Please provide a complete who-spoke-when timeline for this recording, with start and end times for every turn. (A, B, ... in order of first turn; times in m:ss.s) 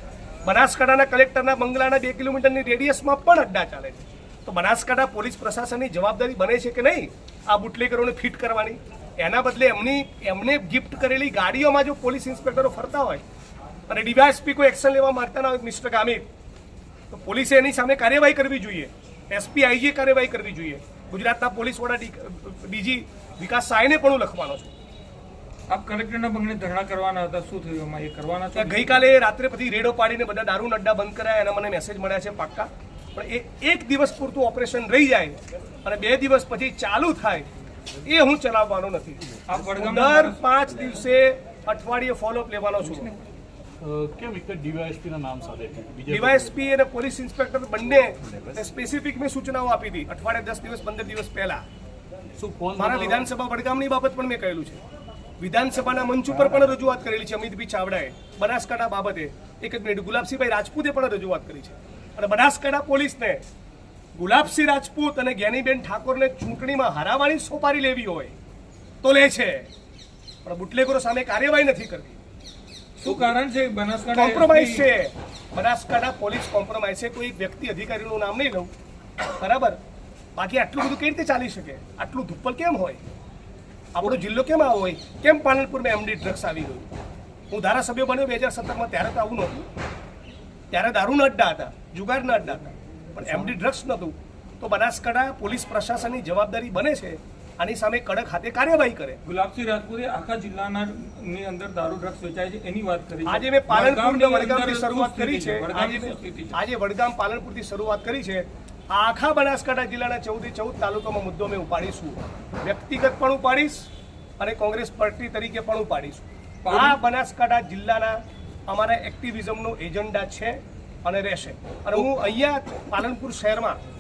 0:00.4-0:13.2 A
0:13.9-0:16.3 A
0:17.1-0:24.7 A
0:25.7-0:29.0 B
0:28.6-0:37.5 A
0:38.0-0:43.1 A
0:39.5-0:40.4 B
0:42.8-0:43.2 B
0:43.8-0:46.6 C
0:46.1-0:51.6 A
0:52.4-0:53.3 C
0:52.8-0:54.8 A
0:55.4-1:03.4 A
1:04.2-1:08.4 A
1:09.0-1:09.7 A
1:10.4-1:12.2 A
1:13.0-1:14.9 B
1:14.1-1:18.7 A
1:19.3-1:19.8 A
1:20.4-1:23.0 A
1:24.0-1:26.9 A
1:27.5-1:29.7 A
1:30.7-1:39.2 A
1:39.2-1:46.6 B
1:43.3-1:53.9 A
1:54.4-2:03.8 A
1:56.6-1:57.0 B